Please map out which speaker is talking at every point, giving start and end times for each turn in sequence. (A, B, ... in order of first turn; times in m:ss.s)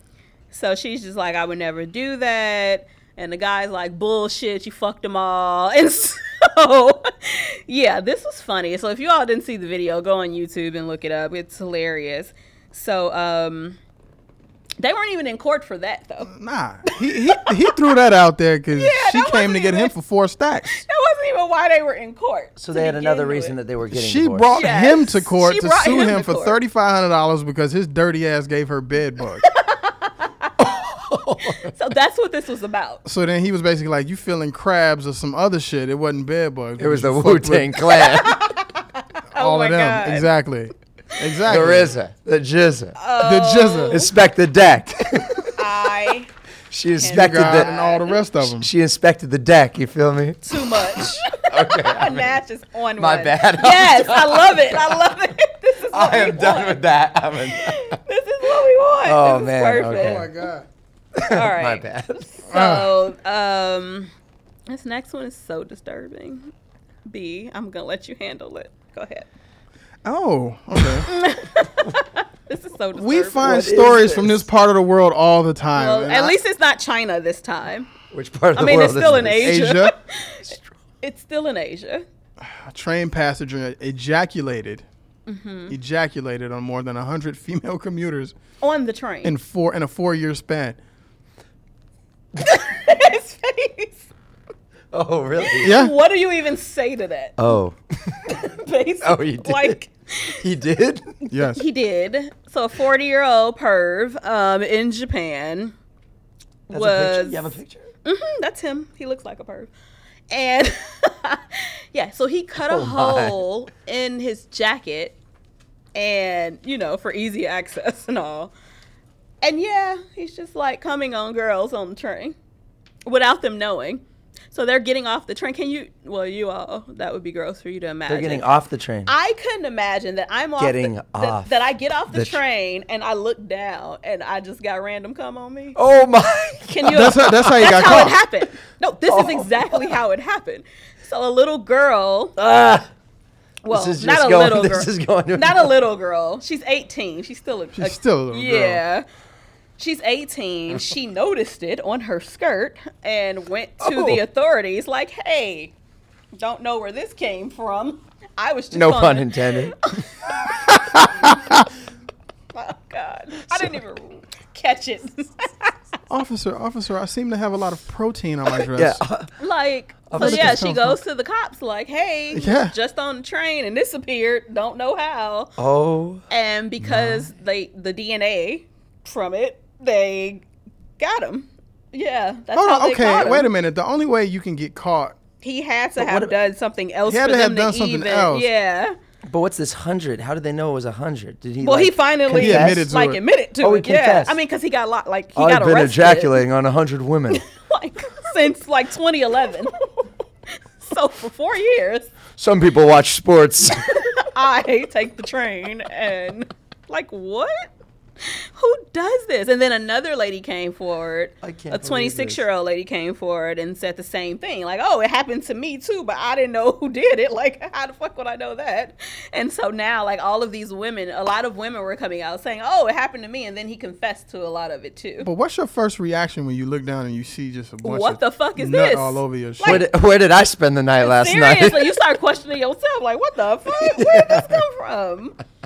0:00.5-0:13.8 A
0:14.8-0:16.3 A
0:16.3-0:20.8 B
0:16.9-0:17.5 A
0:18.7-0:19.9 A
0:20.7-0:23.6 A
0:22.6-0:24.5 C
0:23.9-0:29.5 B
0:24.5-0:26.6 A
0:29.4-0:30.5 A
0:30.6-0:31.7 C
0:31.6-0:33.0 A
0:33.0-0:37.7 B
0:36.8-0:38.5 C
0:38.0-0:40.3 A
0:39.4-0:41.9 B
0:41.5-0:43.0 C
0:43.0-0:44.1 A
0:43.2-0:44.0 B
0:43.9-0:45.5 C
0:45.6-0:46.3 A
0:46.7-0:47.8 C
0:47.0-0:48.2 A
0:47.0-0:48.7 B
0:48.4-0:52.4 C
0:50.4-0:56.8 A
0:53.0-0:55.1 C
0:55.9-0:58.0 C
0:57.4-1:00.3 A
0:59.0-1:00.3 C
0:59.9-1:00.7 B
1:01.2-1:02.3 C
1:01.2-1:04.1 A
1:02.5-1:02.9 B
1:04.7-1:06.5 A
1:07.1-1:09.3 A
1:10.0-1:11.1 B
1:11.0-1:13.8 A
1:13.0-1:16.4 B
1:13.4-1:14.4 C
1:15.8-1:17.9 A
1:18.1-1:19.7 C
1:18.6-1:22.0 A
1:19.2-1:20.0 B
1:20.5-1:20.7 C
1:22.4-1:24.8 B
1:25.3-1:25.8 A
1:25.7-1:28.4 B
1:28.6-1:29.3 A
1:29.2-1:30.8 B
1:32.4-1:34.1 A
1:34.9-1:35.8 C
1:35.4-1:37.4 A
1:35.6-1:35.9 B
1:37.4-1:38.4 C
1:38.2-1:40.4 A
1:39.0-1:39.8 C
1:40.4-1:41.2 C
1:41.3-1:45.7 A
1:41.3-1:41.6 B
1:46.7-1:47.5 A
1:46.7-1:47.9 C
1:48.0-1:49.7 A
1:50.3-1:55.2 A
1:52.6-1:53.4 C
1:56.0-1:58.5 A
1:59.4-2:02.4 A
2:03.1-2:08.5 A
2:08.1-2:09.1 C
2:09.1-2:15.8 A
2:10.6-2:12.4 C
2:15.8-2:18.0 C
2:16.7-2:22.4 A
2:16.9-2:18.2 B
2:19.1-2:20.0 C
2:22.4-2:22.9 C
2:23.6-2:29.0 A
2:23.7-2:25.7 C
2:27.8-2:28.8 B
2:29.8-2:35.7 A
2:36.4-2:41.3 A
2:38.7-2:39.8 C
2:42.5-2:45.7 A
2:43.5-2:43.8 C
2:46.1-2:49.0 B
2:48.7-2:49.3 C
2:49.4-2:55.6 A
2:50.1-2:51.0 C
2:50.2-2:50.8 B
2:52.3-2:52.7 B
2:55.6-2:56.2 C
2:56.3-3:00.4 A
3:01.0-3:03.5 A
3:02.5-3:05.2 B
3:05.4-3:09.0 A
3:06.0-3:06.3 C
3:07.1-3:08.5 B
3:09.3-3:12.9 C
3:11.6-3:16.4 A
3:12.3-3:13.2 B
3:13.6-3:14.4 C
3:15.4-3:17.4 C
3:17.3-3:19.9 A
3:20.8-3:22.1 A
3:22.4-3:24.1 C
3:24.0-3:27.7 A
3:28.2-3:45.3 A
3:31.4-3:32.4 C
3:45.2-3:49.8 B
3:47.8-3:49.9 A
3:49.6-3:52.0 C
3:51.0-3:55.4 A
3:53.8-3:54.6 C